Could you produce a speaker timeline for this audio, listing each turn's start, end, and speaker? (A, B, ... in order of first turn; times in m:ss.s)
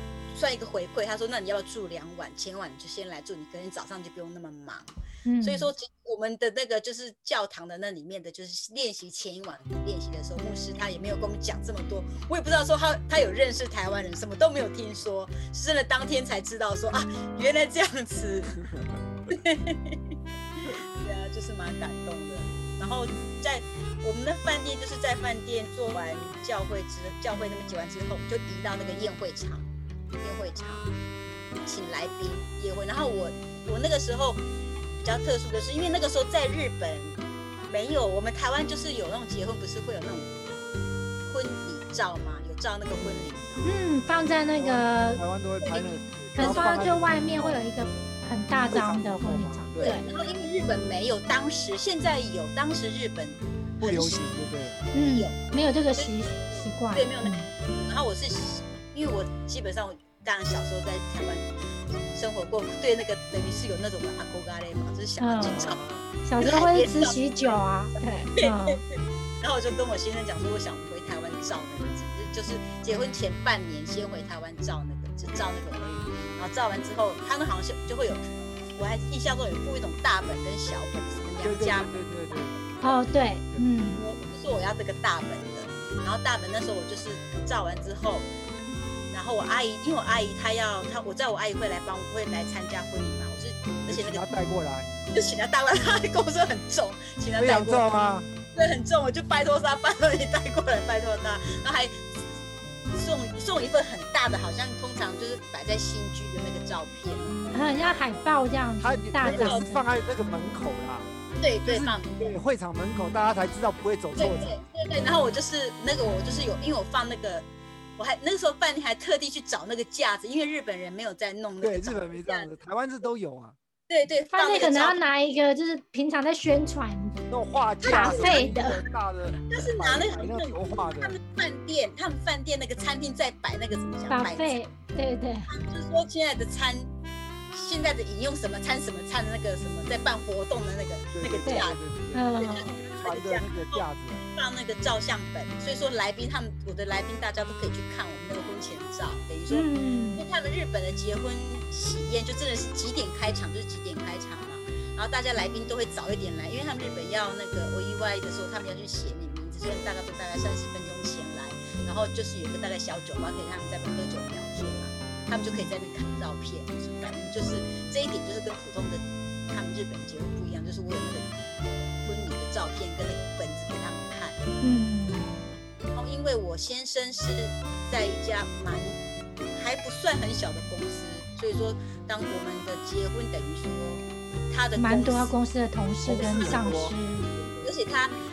0:00.3-0:18.6 A
0:05.2-0:05.7 B
0:18.6-0:19.0 C
0:19.3-0:20.0 A
0:20.9-0:29.7 A
0:30.2-0:30.9 A
0:31.6-0:34.4 A
0:35.0-0:40.3 A
0:41.2-0:43.7 A
0:42.9-0:43.3 C
0:43.6-0:45.2 B
0:44.6-0:47.6 C
0:45.6-0:47.0 A
0:46.4-0:50.0 B
0:48.7-0:50.0 C
0:49.8-0:55.4 A
0:53.8-0:54.8 C
0:54.9-0:57.5 B
0:55.9-1:01.5 A
1:02.0-1:05.8 A
1:05.2-1:05.6 B
1:05.4-1:06.1 C
1:06.2-1:08.8 B
1:06.4-1:07.6 A
1:08.4-1:22.6 A
1:21.4-1:22.8 C
1:22.8-1:24.0 B
1:24.0-1:28.3 A
1:29.1-1:34.3 A
1:33.9-1:34.9 C
1:35.1-1:37.9 A
1:37.4-1:38.3 C
1:38.5-1:42.3 A
1:42.9-1:48.0 A
1:47.5-1:49.7 B
1:48.8-1:51.1 C
1:49.2-1:49.7 A
1:51.4-1:52.4 A
1:51.6-1:54.6 C
1:54.2-2:02.5 A
2:01.6-2:03.6 C
2:03.9-2:05.0 A
2:04.3-2:07.2 B
2:07.3-2:11.2 C
2:07.8-2:08.7 A
2:07.8-2:08.8 B
2:09.5-2:14.6 A
2:14.1-2:15.5 B
2:15.5-2:16.9 A
2:17.5-2:21.8 A
2:21.1-2:24.2 C
2:21.4-2:22.7 B
2:22.4-2:51.4 A
2:29.5-2:30.2 B
2:52.0-2:54.4 A
2:54.6-2:55.5 B
2:55.9-2:59.0 A
2:59.5-3:05.3 A
3:04.8-3:07.3 B
3:06.0-3:06.9 C
3:06.3-3:08.2 A